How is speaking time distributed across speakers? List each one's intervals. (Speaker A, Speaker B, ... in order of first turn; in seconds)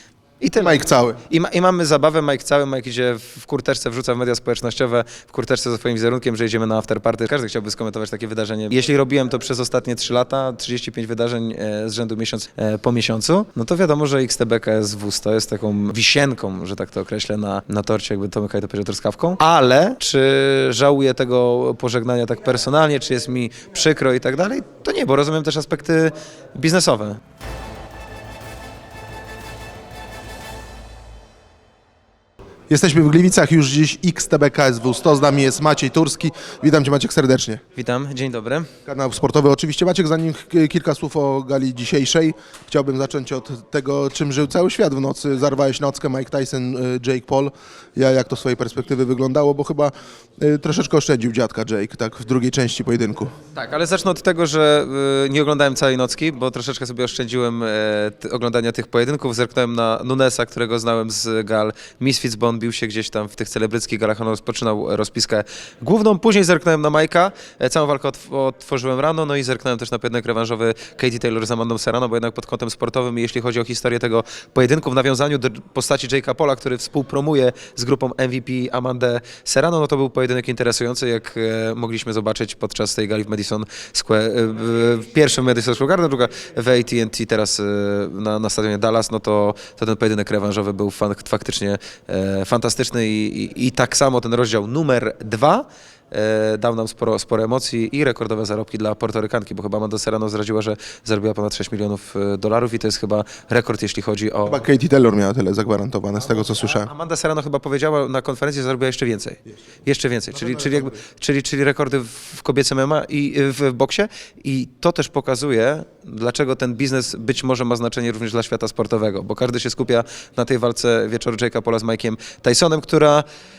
Speaker A: 0.4-27.2, 37.8-38.7, 53.5-104.6, 106.2-123.2
Speaker B: 0.6-1.2, 32.7-37.6, 38.9-53.3, 104.5-106.9, 110.4-111.0